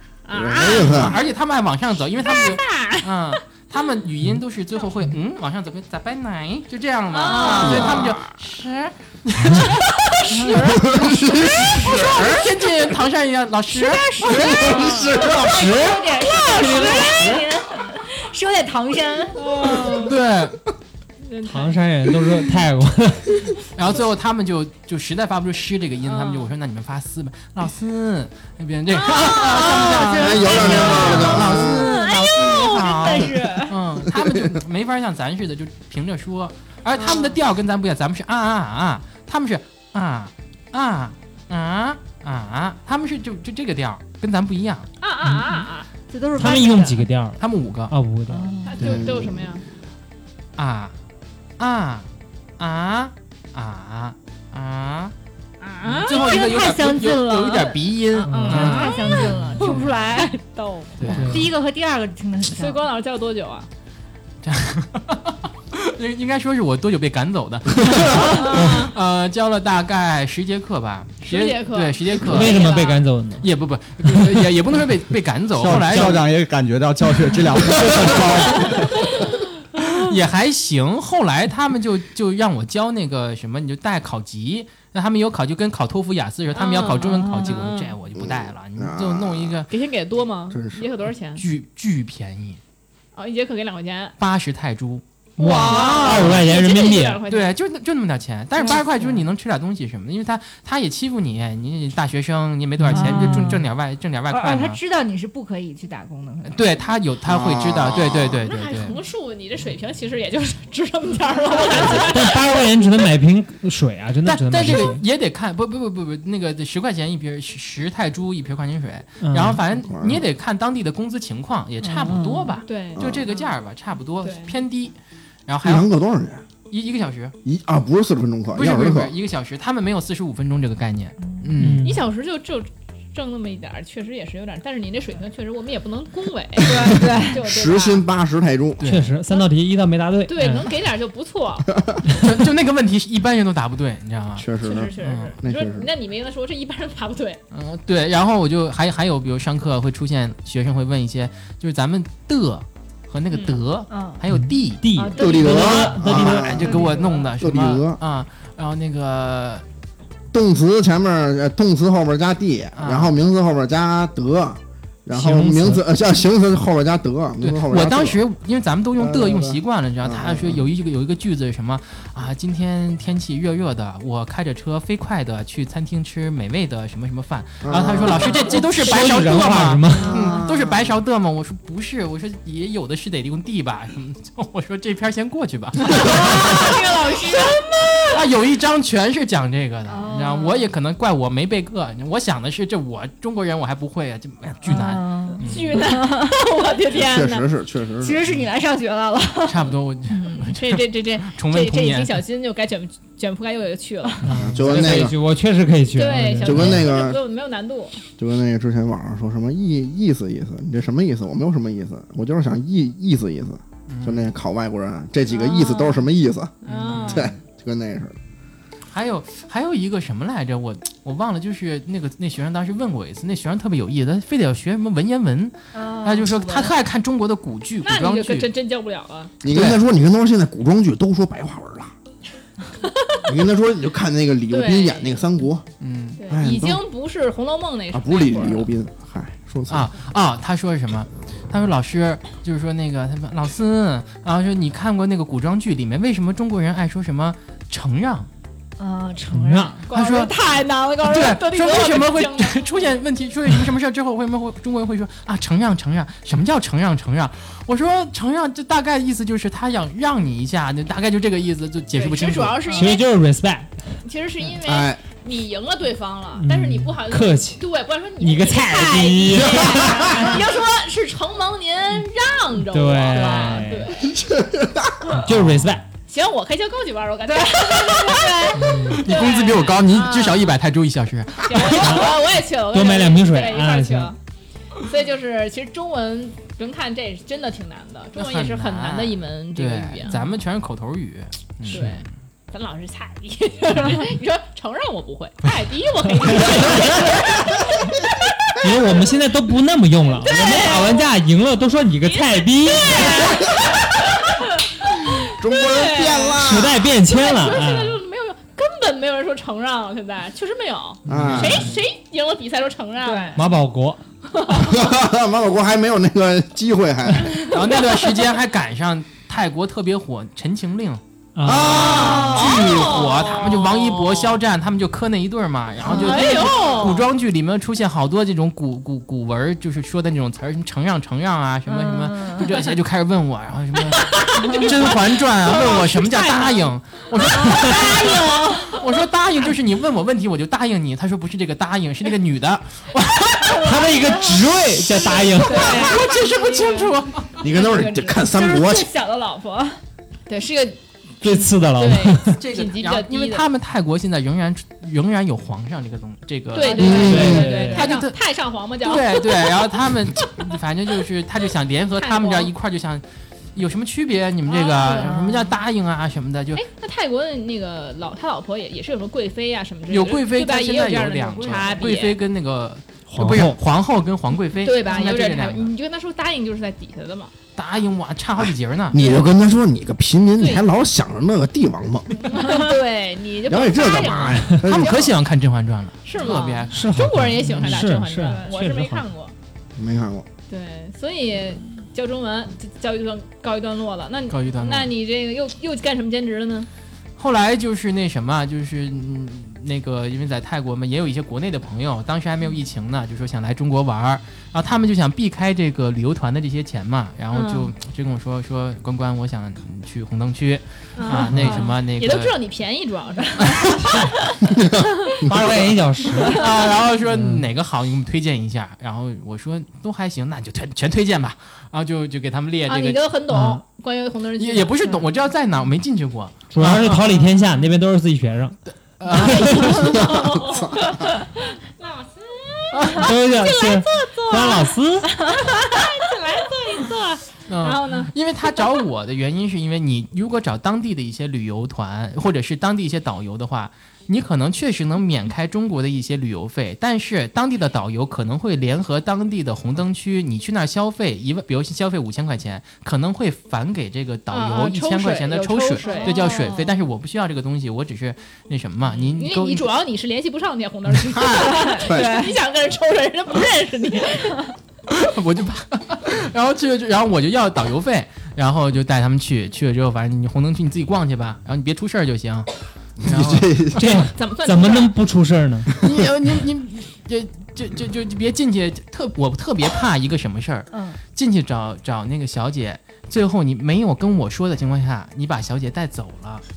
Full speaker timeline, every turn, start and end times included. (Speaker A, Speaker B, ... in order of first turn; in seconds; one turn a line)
Speaker A: 0.2-1.2
Speaker B: 0.3-1.2
Speaker C: 0.7-10.8
Speaker A: 2.2-3.4
Speaker A: 7.1-8.2
Speaker D: 7.2-8.0
Speaker B: 7.6-8.3
Speaker A: 9.6-12.3
Speaker B: 10.6-12.5
Speaker C: 11.7-14.9
Speaker D: 13.7-20.0
Speaker B: 14.3-15.7
Speaker E: 15.2-17.4
Speaker A: 19.3-20.1
Speaker C: 20.0-20.6
Speaker A: 21.2-21.8
Speaker E: 21.4-23.5
Speaker C: 23.7-44.9
Speaker A: 26.0-26.5
Speaker A: 28.9-32.5
Speaker D: 29.4-33.8
Speaker B: 30.2-31.9
Speaker B: 34.1-34.4
Speaker A: 36.9-37.4
Speaker A: 45.0-45.9
Speaker D: 45.5-47.1
Speaker E: 46.4-48.9
Speaker C: 47.4-47.9
Speaker D: 48.3-48.9
Speaker A: 48.6-49.6
Speaker B: 48.8-49.6
Speaker C: 50.6-50.9
Speaker C: 51.6-52.0
Speaker C: 52.6-55.1
Speaker A: 55.6-56.4
Speaker C: 55.9-59.0
Speaker D: 56.0-60.5
Speaker E: 58.2-59.6
Speaker A: 58.3-61.2
Speaker C: 59.6-59.9
Speaker C: 61.0-61.5
Speaker D: 61.0-62.8
Speaker E: 61.1-61.5
Speaker A: 62.5-63.7
Speaker C: 64.4-72.8
Speaker D: 68.1-68.5
Speaker A: 68.2-68.9
Speaker A: 71.2-73.0
Speaker E: 72.2-73.5
Speaker C: 73.4-76.2
Speaker E: 74.0-74.4
Speaker F: 75.5-79.1
Speaker E: 75.7-76.2
Speaker A: 78.6-79.9
Speaker C: 79.9-89.7
Speaker A: 86.5-87.9
Speaker B: 88.2-89.6
Speaker A: 89.7-91.4
Speaker B: 90.5-90.9
Speaker C: 91.4-92.6
Speaker A: 93.1-94.1
Speaker C: 94.2-95.0
Speaker A: 95.4-97.5
Speaker E: 95.4-97.2
Speaker D: 95.4-96.1
Speaker C: 95.6-96.5
Speaker C: 97.3-104.8
Speaker D: 98.6-99.2
Speaker E: 102.8-103.6
Speaker D: 102.9-103.7
Speaker D: 104.3-106.7
Speaker C: 106.5-109.0
Speaker B: 107.2-108.4
Speaker A: 108.4-112.8
Speaker D: 111.5-112.1
Speaker E: 111.9-115.0
Speaker C: 114.2-124.9
Speaker E: 119.2-119.6
Speaker B: 119.7-120.2
Speaker D: 121.8-122.6
Speaker A: 122.6-123.5
Speaker B: 123.0-123.2
Speaker A: 124.2-124.5
Speaker C: 125.5-125.9
Speaker B: 125.6-126.4
Speaker C: 126.7-127.3
Speaker B: 127.4-129.1
Speaker C: 128.5-131.9
Speaker D: 131.2-131.5
Speaker E: 131.6-132.0
Speaker A: 131.8-138.1
Speaker D: 136.6-137.4
Speaker B: 137.0-138.8
Speaker C: 138.8-139.2
Speaker E: 138.8-140.7
Speaker A: 140.2-141.7
Speaker C: 142.2-144.5
Speaker B: 144.4-145.9
Speaker A: 144.6-147.4
Speaker C: 145.0-145.3
Speaker C: 147.5-154.8
Speaker A: 153.3-153.6
Speaker D: 153.9-154.2
Speaker E: 154.3-156.6
Speaker D: 154.9-157.3
Speaker B: 155.2-158.0
Speaker C: 156.1-159.6
Speaker B: 160.3-168.2
Speaker C: 162.7-163.1
Speaker E: 165.1-165.8
Speaker C: 167.4-186.8
Speaker B: 169.0-170.7
Speaker B: 177.6-178.5
Speaker D: 178.2-178.6
Speaker E: 178.5-180.2
Speaker D: 179.9-180.4
Speaker B: 180.1-180.9
Speaker D: 185.8-188.1
Speaker A: 185.9-188.2
Speaker C: 188.1-195.8
Speaker D: 189.9-190.7
Speaker D: 194.6-196.4
Speaker A: 195.4-197.4
Speaker B: 196.9-198.2
Speaker D: 198.0-199.7
Speaker C: 199.5-202.2
Speaker A: 200.1-204.2
Speaker E: 204.2-206.9
Speaker B: 204.4-205.2
Speaker A: 205.9-208.0
Speaker B: 206.4-207.2
Speaker B: 208.2-218.2
Speaker C: 213.9-214.3
Speaker D: 215.3-216.1
Speaker A: 216.6-217.3
Speaker C: 216.6-217.3
Speaker C: 218.9-228.5
Speaker D: 225.7-226.7
Speaker A: 227.8-229.3
Speaker B: 229.4-231.9
Speaker C: 229.4-229.8
Speaker A: 232.8-233.2
Speaker B: 233.2-235.6
Speaker A: 234.5-235.2
Speaker C: 235.8-236.2
Speaker A: 236.2-238.7
Speaker B: 236.3-236.8
Speaker B: 237.9-239.9
Speaker C: 239.7-248.3
Speaker D: 248.8-249.9
Speaker E: 249.3-249.8
Speaker A: 249.9-252.8
Speaker C: 249.9-250.3
Speaker C: 251.0-262.9
Speaker A: 261.9-263.0
Speaker E: 262.7-263.8
Speaker A: 264.0-274.1
Speaker B: 264.6-265.0
Speaker E: 266.4-267.6
Speaker E: 268.2-270.4
Speaker B: 269.8-270.2
Speaker D: 270.1-270.4
Speaker E: 272.6-273.9
Speaker D: 273.1-273.7
Speaker B: 274.0-275.2
Speaker E: 275.1-275.8
Speaker C: 275.3-275.8
Speaker A: 276.1-280.5
Speaker D: 277.2-278.8
Speaker E: 278.6-279.0
Speaker C: 278.7-282.1
Speaker A: 281.4-284.2
Speaker E: 281.7-284.1
Speaker A: 284.8-290.3
Speaker C: 288.1-292.1
Speaker A: 291.7-298.1
Speaker E: 298.6-303.4
Speaker A: 300.2-301.1
Speaker A: 302.0-306.4
Speaker B: 305.4-306.9
Speaker E: 306.4-308.0
Speaker A: 307.0-313.4
Speaker E: 311.1-311.7
Speaker C: 311.1-311.6
Speaker B: 311.1-311.7
Speaker D: 313.0-313.4
Speaker E: 313.3-314.0
Speaker A: 314.3-314.8
Speaker B: 314.6-317.4
Speaker A: 317.4-317.8
Speaker C: 317.5-321.0
Speaker E: 321.3-321.8
Speaker B: 321.4-323.0
Speaker A: 321.6-324.4
Speaker D: 321.8-322.6
Speaker C: 321.8-343.9
Speaker D: 325.8-327.0
Speaker A: 325.9-327.1
Speaker D: 331.7-332.5
Speaker A: 334.2-336.7
Speaker D: 334.4-334.8
Speaker D: 337.2-338.9
Speaker A: 337.2-338.9
Speaker D: 343.4-346.0
Speaker E: 343.6-345.8
Speaker C: 345.0-347.4
Speaker A: 345.3-348.3
Speaker B: 347.4-348.9
Speaker D: 347.6-349.8
Speaker A: 350.3-353.4
Speaker E: 351.2-352.4
Speaker C: 352.4-358.2
Speaker A: 356.5-359.5
Speaker D: 356.7-357.8
Speaker B: 356.8-357.5
Speaker E: 356.9-357.9
Speaker C: 358.8-363.0
Speaker A: 362.0-362.5
Speaker C: 363.5-366.6
Speaker A: 364.5-365.2
Speaker D: 364.6-365.5
Speaker A: 366.5-372.2
Speaker C: 369.9-375.7
Speaker D: 371.3-371.9
Speaker E: 373.1-373.6
Speaker A: 374.6-377.3
Speaker C: 377.6-379.0
Speaker B: 378.4-382.2
Speaker A: 378.9-379.3
Speaker A: 380.4-380.6
Speaker A: 382.2-385.1
Speaker D: 382.4-382.7
Speaker B: 383.5-385.1
Speaker C: 384.5-387.9
Speaker A: 386.0-389.3
Speaker E: 386.7-389.0
Speaker D: 388.2-388.5
Speaker B: 389.8-390.2
Speaker A: 390.5-396.7
Speaker C: 394.3-394.9
Speaker C: 397.2-412.3
Speaker A: 407.3-407.7
Speaker A: 410.9-414.6
Speaker D: 411.1-411.7
Speaker E: 411.3-411.6
Speaker C: 413.4-414.1
Speaker B: 414.5-415.5
Speaker E: 415.2-416.5
Speaker C: 416.3-423.1
Speaker E: 417.0-417.4
Speaker A: 422.6-425.0
Speaker E: 423.3-423.6
Speaker C: 424.4-427.1
Speaker E: 426.5-429.8
Speaker C: 429.0-430.0
Speaker A: 429.1-438.1
Speaker B: 429.9-430.9
Speaker C: 432.7-433.1
Speaker E: 432.9-435.1
Speaker C: 437.5-459.6
Speaker A: 454.3-456.2
Speaker D: 455.8-456.8
Speaker A: 458.9-464.5
Speaker B: 461.1-462.1
Speaker D: 461.3-462.4
Speaker C: 464.9-472.5
Speaker B: 473.0-473.8
Speaker C: 473.0-473.8
Speaker E: 473.8-475.7
Speaker A: 474.1-474.9
Speaker C: 475.8-486.4
Speaker D: 480.7-481.0